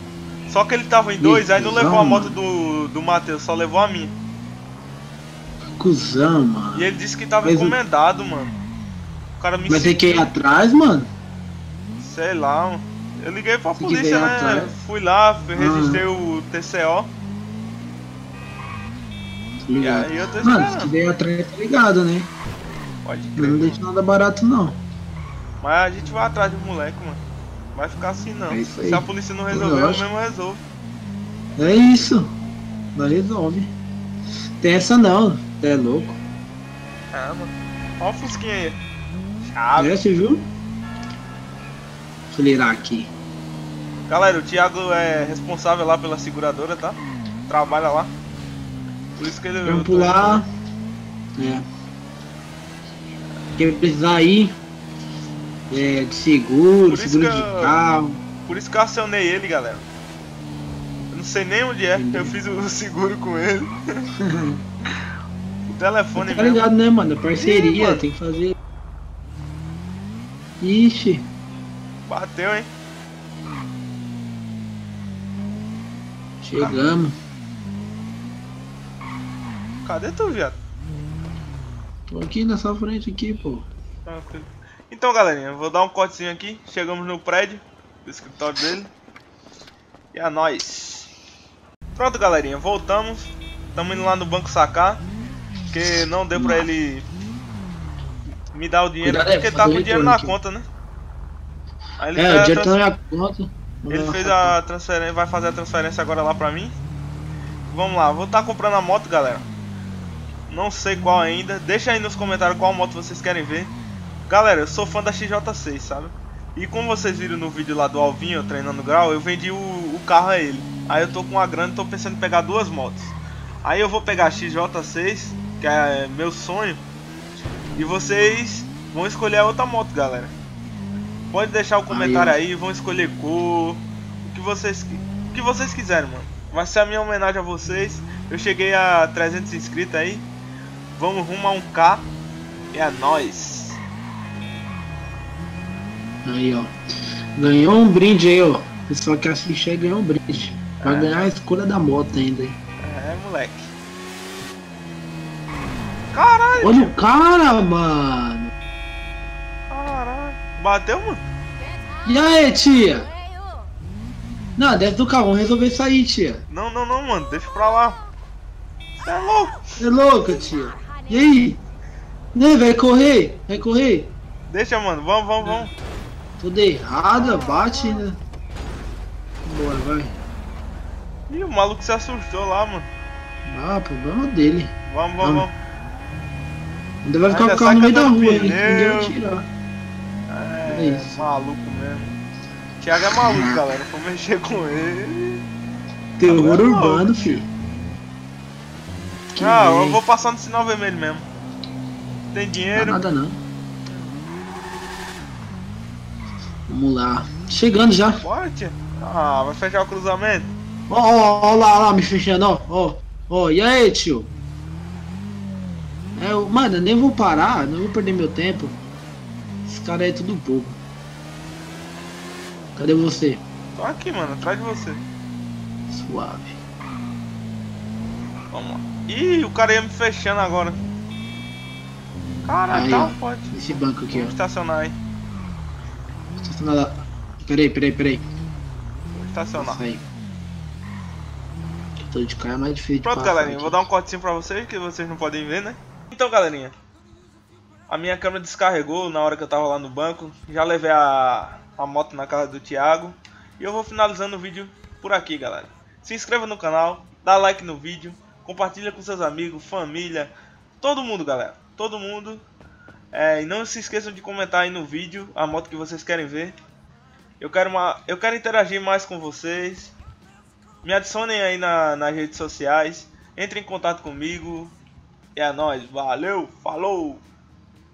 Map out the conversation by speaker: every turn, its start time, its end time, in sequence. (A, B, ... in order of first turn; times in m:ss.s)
0:00.5-0:04.2 A
0:01.2-0:02.4 B
0:05.8-0:06.9 B
0:06.8-0:08.6 A
0:07.4-0:07.8 B
0:09.4-0:10.3 A
0:09.7-0:11.1 B
0:12.0-0:17.1 A
0:13.8-0:14.8 B
0:15.6-0:16.0 B
0:19.6-0:22.3 B
0:19.8-0:20.9 A
0:23.0-0:23.8 A
0:23.4-0:24.8 B
0:25.6-0:27.2 A
0:27.7-0:30.6 A
0:28.5-0:30.1 B
0:31.6-0:32.3 B
0:32.9-0:33.7 B
0:34.6-0:36.2 B
0:37.1-0:38.8 A
0:39.4-0:40.0 A
0:39.8-0:40.4 B
0:42.3-0:43.1 B
0:44.1-0:48.1 A
0:49.2-0:50.4 A
0:49.6-0:50.5 B
0:51.4-0:51.6 B
0:53.6-0:54.5 B
0:55.7-0:58.2 B
0:56.9-0:57.8 A
0:58.5-0:59.8 A
1:01.1-1:04.1 A
1:01.9-1:02.4 B
1:04.2-1:04.6 B
1:05.7-1:06.7 A
1:06.2-1:08.5 B
1:07.4-1:08.0 A
1:10.6-1:11.3 B
1:12.1-1:12.7 A
1:16.4-1:17.2 B
1:16.5-1:16.8 A
1:19.8-1:20.6 A
1:22.1-1:23.7 B
1:24.1-1:28.9 A
1:30.1-1:31.1 A
1:32.0-1:35.0 A
1:35.7-1:37.1 A
1:36.3-1:36.7 B
1:38.5-1:40.7 A
1:39.0-1:40.4 B
1:42.0-1:42.8 A
1:42.2-1:44.6 B
1:43.9-1:46.7 A
1:47.7-1:49.5 A
1:50.5-1:53.7 A
1:54.3-2:06.8 A
2:07.7-2:10.3 A
2:11.3-2:20.3 A
2:11.9-2:12.4 B
2:21.0-2:22.1 A
2:22.7-2:23.8 A
2:26.2-2:26.7 B
2:27.4-2:32.6 B
2:30.8-2:31.3 A
2:32.8-2:33.7 A
2:36.1-2:36.9 A
2:36.6-2:38.5 B
2:39.7-2:41.2 A
2:42.0-2:43.1 B
2:44.6-2:46.4 B
2:46.5-2:48.0 A
2:49.0-2:49.6 A
2:49.8-2:51.6 B
2:52.3-2:54.1 B
2:54.5-2:55.7 A
2:56.4-2:58.2 B
2:59.5-3:00.2 B
3:01.3-3:02.9 A
3:03.5-3:05.5 B
3:04.8-3:05.5 A
3:07.0-3:09.5 B
3:07.3-3:09.2 A
3:10.3-3:12.2 A
3:10.7-3:11.2 B
3:12.8-3:15.4 A
3:13.1-3:13.6 B
3:16.2-3:17.5 B
3:16.3-3:17.4 A
3:19.4-3:20.0 B
3:19.4-3:21.3 A
3:22.3-3:23.0 A
3:22.7-3:23.4 B
3:26.7-3:28.2 B
3:28.2-3:30.5 A
3:30.9-3:34.3 B
3:36.2-3:38.8 B
3:39.7-3:40.8 B
3:42.8-3:43.4 B
3:43.8-3:45.0 A
3:45.9-3:46.6 B
3:48.5-3:50.8 A
3:52.4-3:53.6 A
3:52.7-3:54.4 B
3:54.1-3:55.0 A
3:56.4-3:58.2 B
3:59.1-3:59.9 A
3:59.6-4:00.0 B
4:02.1-4:03.8 B
4:03.0-4:06.7 A
4:07.9-4:22.4 A
4:23.1-4:26.5 A
4:27.4-4:30.0 A
4:30.8-4:34.7 A
4:35.4-4:37.2 A